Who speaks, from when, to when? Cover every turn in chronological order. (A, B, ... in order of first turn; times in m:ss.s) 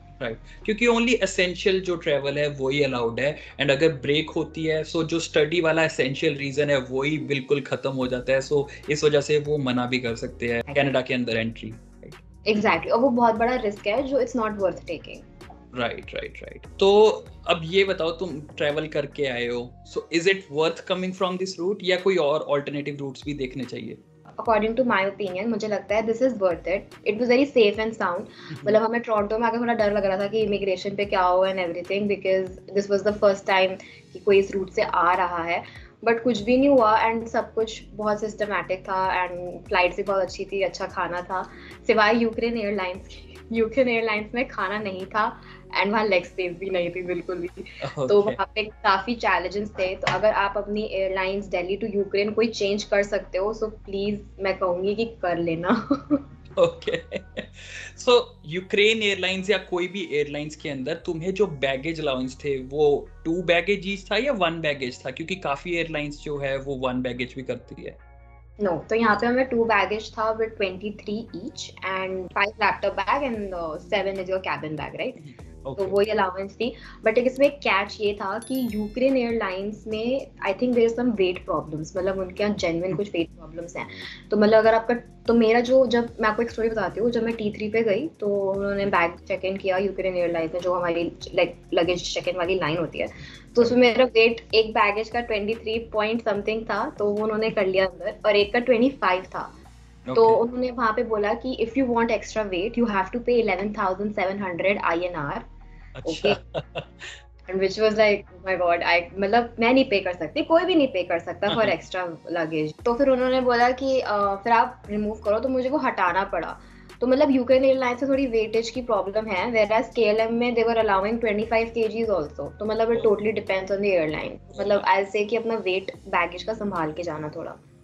0:00.2-0:12.2 A
0:12.5-0:15.2 B
0:15.7-0:24.0 A
0:24.4-0:56.2 B
0:47.8-0:48.4 A
0:56.6-1:08.0 A
1:08.6-1:15.2 B
1:15.2-1:16.0 A
1:15.8-1:39.5 B
1:40.1-1:40.4 A
1:40.1-1:45.5 B
1:46.0-1:47.2 A
1:46.0-1:46.4 B
1:47.5-2:07.6 B
1:51.5-1:51.8 A
2:04.5-2:04.8 A